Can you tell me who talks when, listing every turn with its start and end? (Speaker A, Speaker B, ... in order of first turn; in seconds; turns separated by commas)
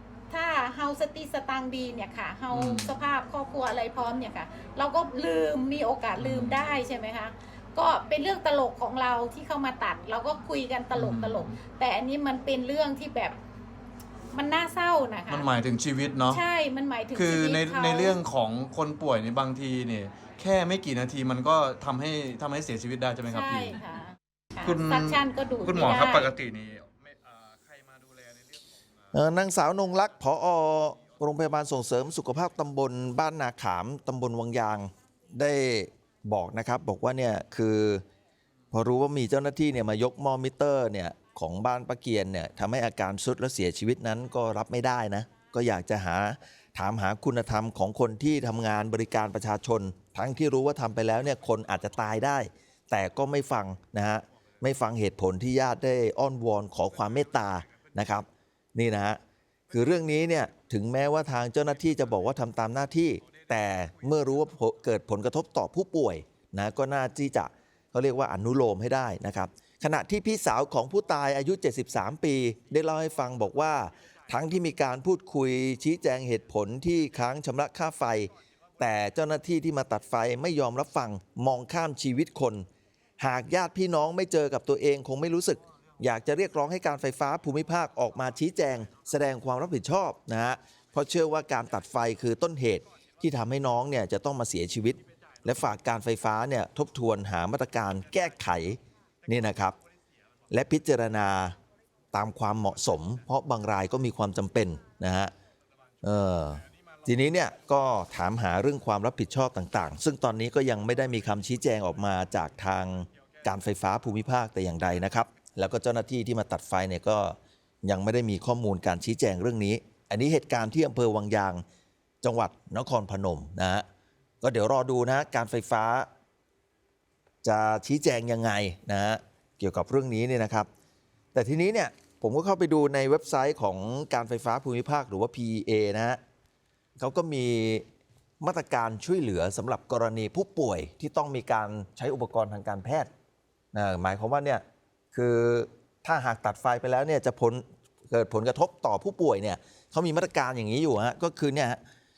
Speaker A: 0.3-13.3, Speaker B: 2.5-2.9, Speaker B: 6.2-6.7, Speaker B: 10.9-11.6, Speaker A: 14.3-15.5, Speaker B: 15.3-16.4, Speaker A: 16.3-18.2, Speaker B: 17.1-23.8, Speaker A: 23.2-26.3, Speaker B: 24.6-28.7, Speaker C: 29.1-38.0, Speaker C: 38.7-59.2, Speaker C: 59.7-82.7, Speaker C: 83.2-99.8, Speaker C: 100.5-101.5, Speaker C: 102.1-105.3, Speaker C: 106.0-121.6, Speaker C: 122.2-123.8, Speaker C: 124.4-126.1, Speaker C: 127.4-130.7, Speaker C: 131.3-136.2, Speaker C: 137.0-137.8, Speaker C: 138.4-143.1, Speaker C: 143.7-151.8